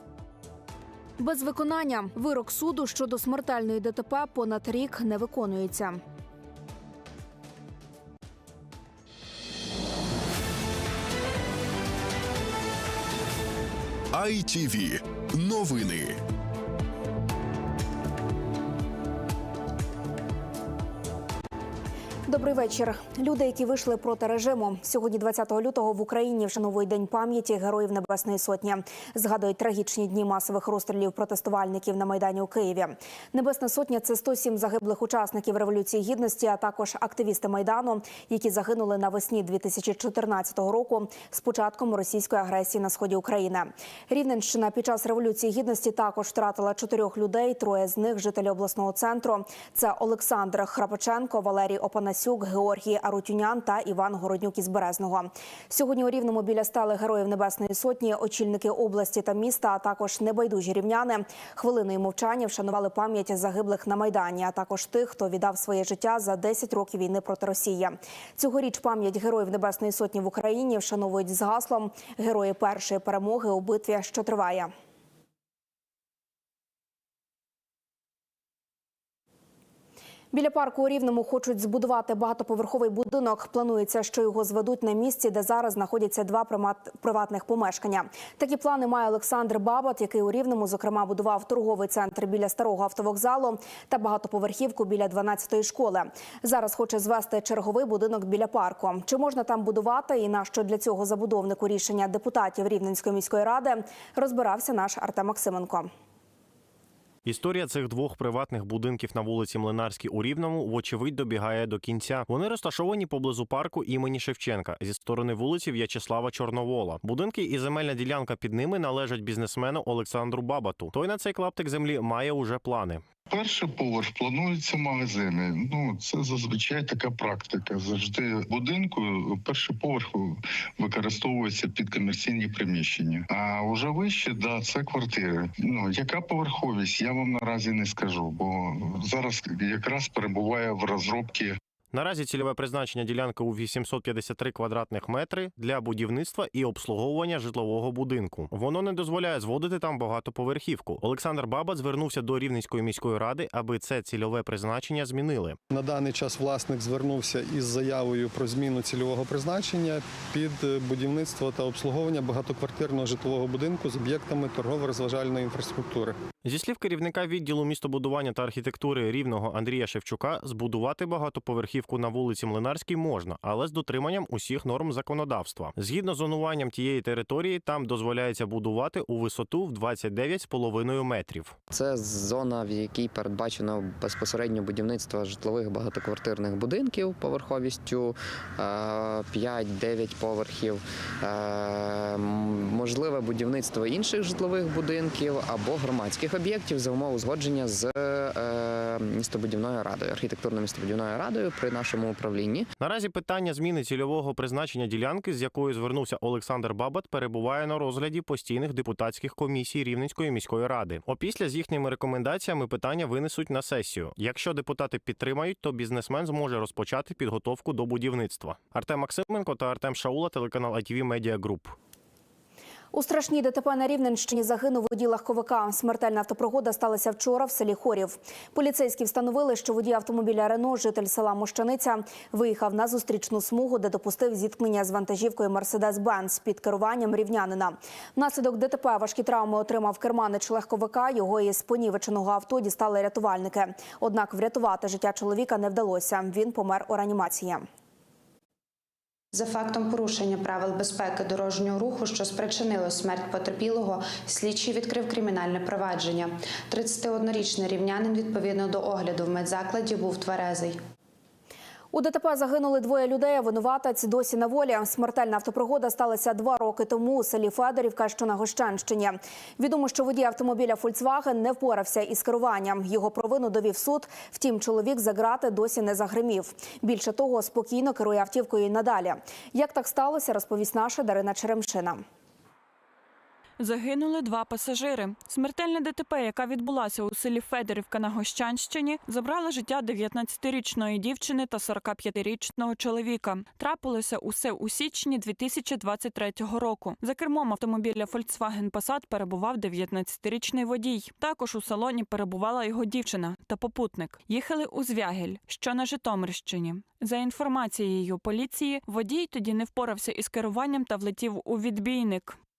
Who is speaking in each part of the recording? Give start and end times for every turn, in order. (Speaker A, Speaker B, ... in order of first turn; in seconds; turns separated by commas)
Speaker A: 1.2-6.0, Speaker B: 14.2-16.1, Speaker A: 22.3-74.7, Speaker A: 80.3-105.9, Speaker C: 107.2-123.0, Speaker D: 123.3-141.6, Speaker C: 141.9-155.6, Speaker E: 155.7-166.2, Speaker C: 166.4-181.6, Speaker F: 181.7-202.7, Speaker C: 202.8-221.8, Speaker A: 222.9-247.6, Speaker G: 249.3-260.8, Speaker A: 261.9-282.1, Speaker H: 283.6-312.4